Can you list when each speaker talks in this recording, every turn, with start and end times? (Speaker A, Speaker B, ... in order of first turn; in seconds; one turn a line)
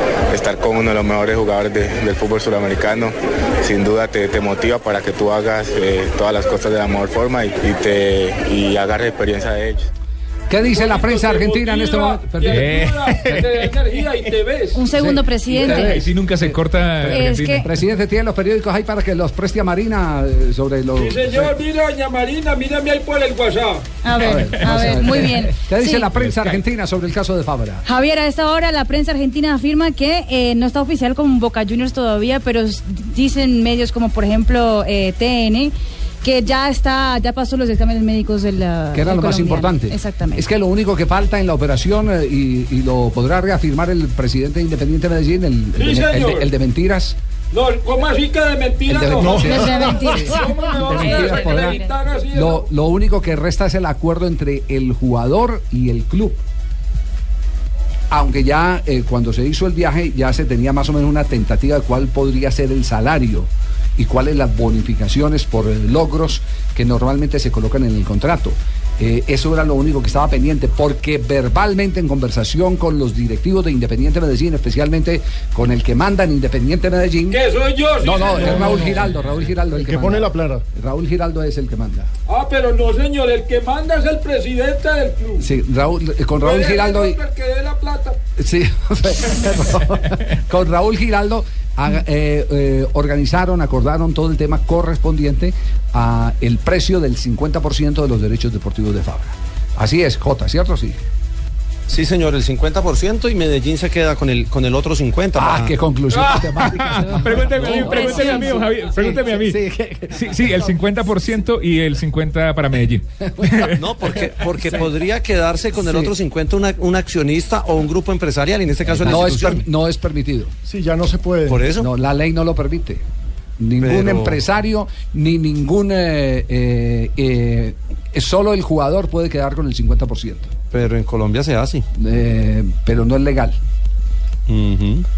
Speaker A: 0.3-9.9
Speaker B: 10.5-12.8
Speaker C: 10.6-14.9
Speaker D: 12.4-13.6
Speaker E: 14.7-15.9
Speaker B: 14.9-21.5
Speaker C: 15.4-15.9
Speaker D: 15.8-17.6
Speaker E: 17.0-17.7
Speaker C: 20.9-23.8
Speaker E: 24.0-26.1
Speaker B: 24.2-27.9
Speaker D: 24.2-25.3
Speaker D: 26.2-26.6
Speaker E: 27.9-40.4
Speaker B: 38.9-47.2
Speaker C: 45.8-46.5
Speaker C: 47.5-52.7
Speaker B: 48.9-51.8
Speaker E: 49.4-51.9
Speaker B: 52.3-56.4
Speaker B: 58.1-77.4
Speaker C: 77.3-78.6
Speaker B: 78.0-82.1
Speaker F: 78.6-79.0
Speaker F: 79.8-80.6
Speaker C: 82.3-85.5
Speaker B: 85.4-87.2
Speaker C: 86.4-88.2
Speaker B: 88.4-101.0
Speaker G: 101.9-105.7
Speaker B: 105.3-110.5
Speaker C: 106.1-106.4
Speaker D: 106.6-109.6
Speaker E: 107.6-108.5
Speaker D: 110.1-113.9
Speaker B: 113.3-113.7
Speaker G: 113.8-119.6
Speaker B: 115.7-116.1
Speaker B: 119.0-120.5
Speaker F: 120.7-121.7
Speaker G: 121.5-121.9
Speaker B: 121.8-123.0
Speaker B: 123.6-130.5
Speaker G: 123.8-124.4
Speaker G: 130.7-131.8
Speaker B: 132.0-133.6
Speaker G: 134.5-135.1